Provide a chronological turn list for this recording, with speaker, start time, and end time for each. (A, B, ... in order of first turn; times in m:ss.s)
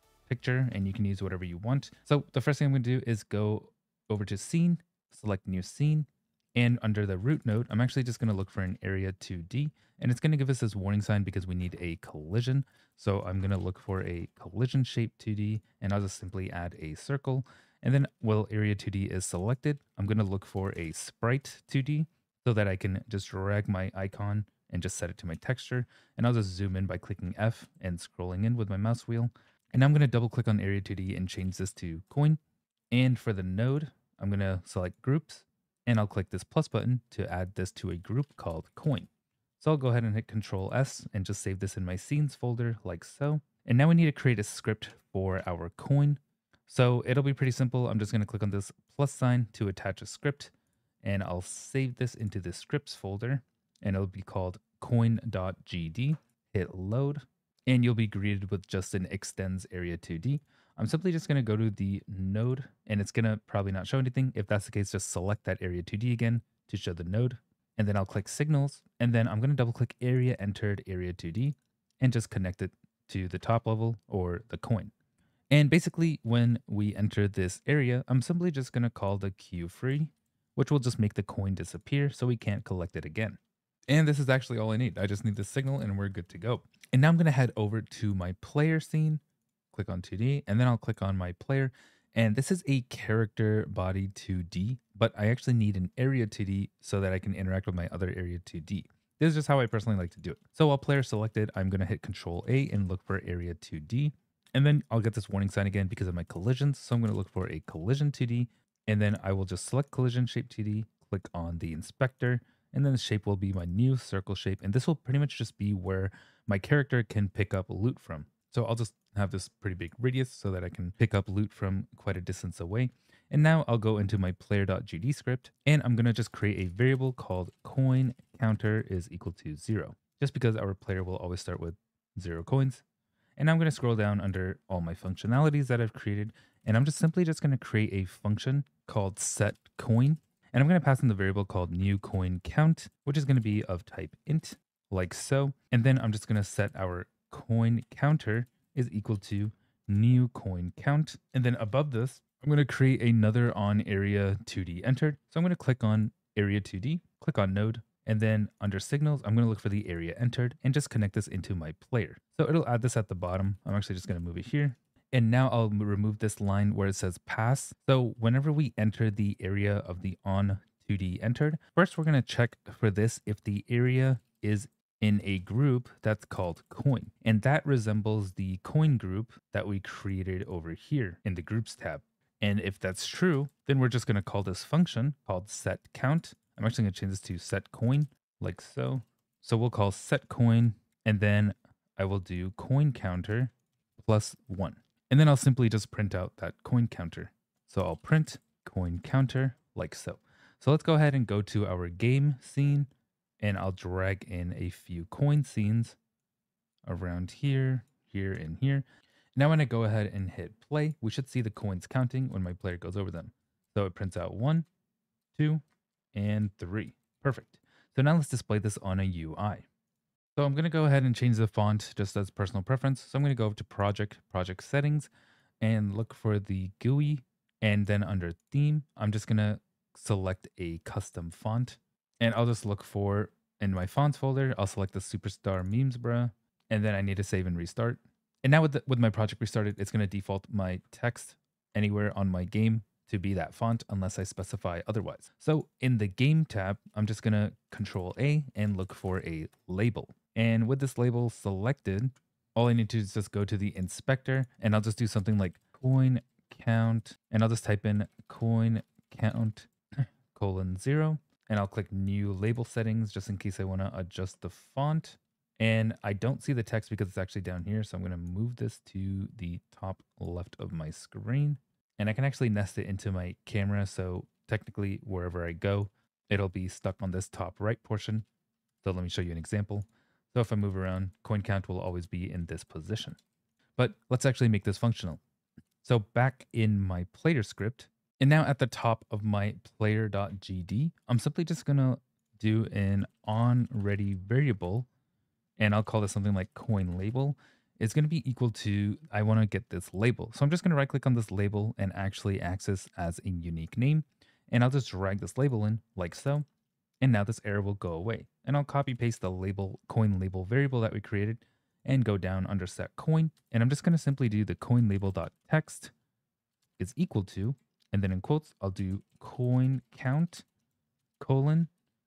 0:00.3-0:32.4 A
0:32.9-0:39.1 A
0:39.6-0:50.5 A
0:51.0-1:14.9 A
1:15.5-1:23.4 A
1:23.9-2:12.8 A
2:13.4-3:22.9 A
3:23.4-3:26.0 A
3:26.8-3:34.7 A
3:35.3-3:39.6 A
3:40.4-3:45.1 A
3:45.6-4:38.2 A
4:38.8-4:43.2 A
4:43.8-4:45.2 A
4:45.8-4:54.9 A
4:55.6-5:06.4 A
5:07.0-5:15.9 A
5:16.8-5:20.4 A
5:21.2-5:21.7 A